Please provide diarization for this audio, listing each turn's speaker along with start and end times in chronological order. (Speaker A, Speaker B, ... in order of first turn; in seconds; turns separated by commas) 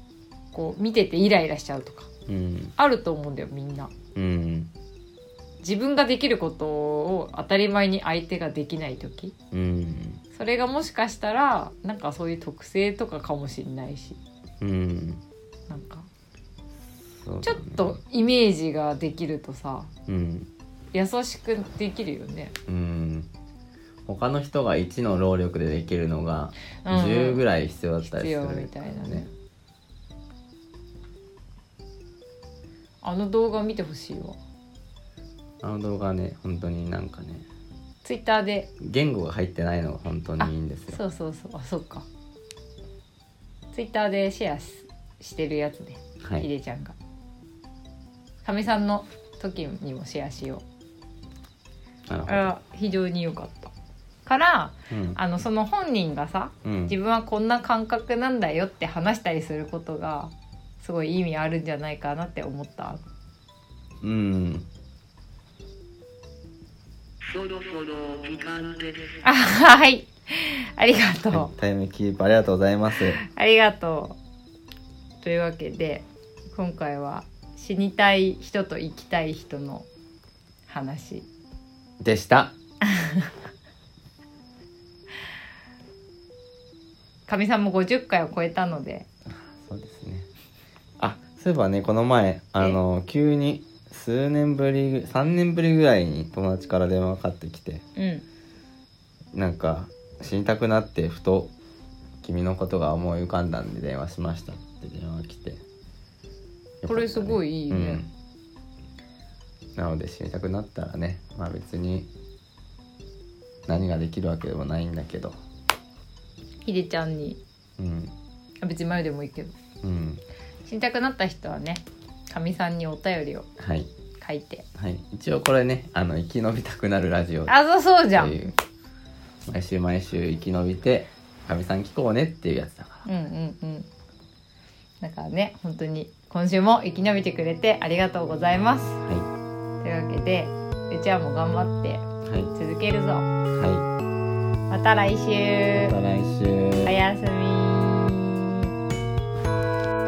Speaker A: 0.5-2.1, Speaker B: 2.3-2.7, Speaker A: 2.8-3.9, Speaker B: 4.1-4.7, Speaker A: 5.6-9.3, Speaker B: 9.5-10.2, Speaker A: 10.3-14.2, Speaker B: 14.6-15.2, Speaker A: 15.7-16.1, Speaker B: 16.9-18.0, Speaker A: 17.4-19.9, Speaker B: 20.1-20.5, Speaker A: 20.9-22.5, Speaker B: 22.7-23.3, Speaker B: 24.1-29.3, Speaker A: 26.8-27.4, Speaker A: 28.0-29.3, Speaker A: 33.0-34.4, Speaker B: 35.6-37.5, Speaker A: 38.0-38.7, Speaker B: 38.8-41.0, Speaker A: 40.4-42.0, Speaker A: 43.7-47.0, Speaker B: 46.2-46.5, Speaker A: 48.4-50.6, Speaker B: 52.1-52.5, Speaker A: 52.3-53.7, Speaker A: 54.2-63.0, Speaker B: 54.9-55.2, Speaker B: 56.6-56.9, Speaker B: 64.0-64.7, Speaker C: 67.2-69.2, Speaker A: 69.2-71.5, Speaker B: 71.3-73.2, Speaker A: 73.2-74.2, Speaker A: 75.2-79.9, Speaker A: 80.7-81.2, Speaker B: 82.0-82.5, Speaker A: 82.8-83.3, Speaker A: 87.3-89.0, Speaker B: 89.3-90.3, Speaker B: 91.0-97.8, Speaker A: 98.0-98.2, Speaker B: 99.3-101.5, Speaker B: 102.2-105.6, Speaker B: 106.8-108.1, Speaker A: 106.9-108.0, Speaker B: 109.8-112.1, Speaker B: 113.7-115.3, Speaker A: 116.6-117.4, Speaker B: 117.8-118.1, Speaker A: 118.6-119.5, Speaker B: 119.8-120.2, Speaker A: 120.7-123.5, Speaker B: 123.6-123.9, Speaker A: 124.2-124.7, Speaker B: 124.8-127.5, Speaker A: 127.5-128.5, Speaker B: 128.1-128.5, Speaker B: 129.4-133.1, Speaker A: 133.0-133.9, Speaker A: 135.0-139.0, Speaker B: 139.0-139.3, Speaker A: 139.8-143.3, Speaker B: 142.2-142.5, Speaker B: 143.5-143.9, Speaker A: 144.7-145.9, Speaker B: 145.8-146.9, Speaker A: 146.8-148.7